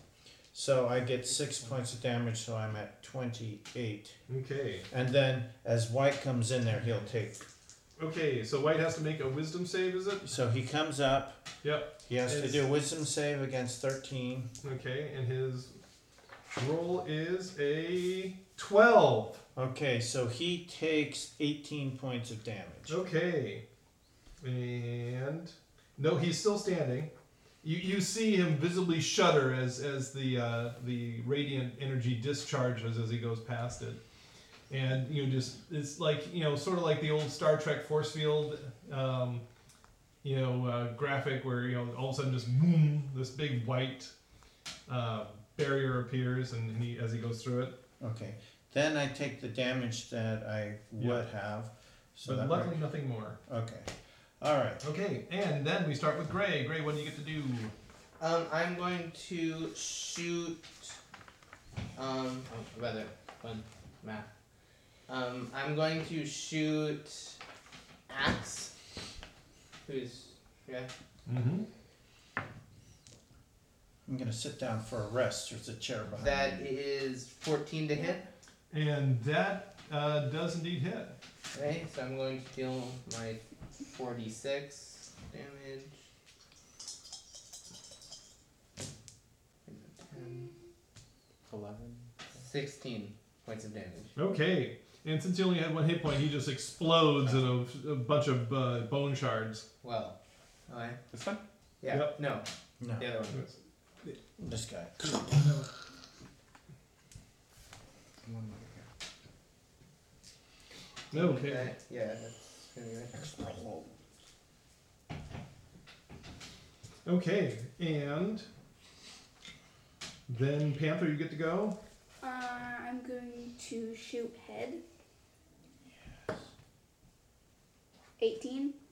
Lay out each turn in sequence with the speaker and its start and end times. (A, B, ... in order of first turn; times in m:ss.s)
0:00.5-0:04.2 A
0:04.3-0:04.8 B
0:04.9-0:07.4 A
0:08.0-0:10.3 B
0:10.2-0:11.4 A
0:11.6-0:12.6 B
0:12.0-0:14.5 A
0:14.6-0:15.7 B
0:16.5-0:19.4 B
0:19.5-0:23.0 A
0:22.9-0:23.6 B
0:24.4-0:27.1 B
0:27.6-0:34.0 B
0:34.7-0:39.4 B
0:40.2-0:44.1 B
0:44.9-0:47.8 B
0:48.0-0:52.8 A
0:51.0-0:51.2 B
0:52.2-0:53.4 B
0:53.5-0:54.8 A
0:54.8-0:57.7 B
0:58.2-1:01.0 C
1:02.0-1:04.3 C
1:05.1-1:07.4 C
1:08.1-1:08.7 C
1:09.8-1:10.9 C
1:11.2-1:11.7 B
1:14.0-1:16.7 A
1:16.2-1:18.3 C
1:18.7-1:21.2 B
1:21.5-1:25.9 C
1:29.6-1:30.5 C
1:31.5-1:34.1 C
1:34.2-1:39.6 B
1:39.8-1:40.2 C
1:40.7-1:42.4 C
1:41.9-1:42.2 B
1:42.8-1:43.1 A
1:43.0-1:43.4 C
1:43.3-1:44.2 B
1:44.4-1:45.3 A
1:45.1-1:45.6 B
1:48.2-1:48.8 C
1:51.1-1:51.7 B
1:51.1-1:53.4 C
1:53.3-1:53.9 A
1:57.0-1:58.5 B
2:00.3-2:01.8 B
2:02.2-2:04.8 D
2:08.2-2:08.8 D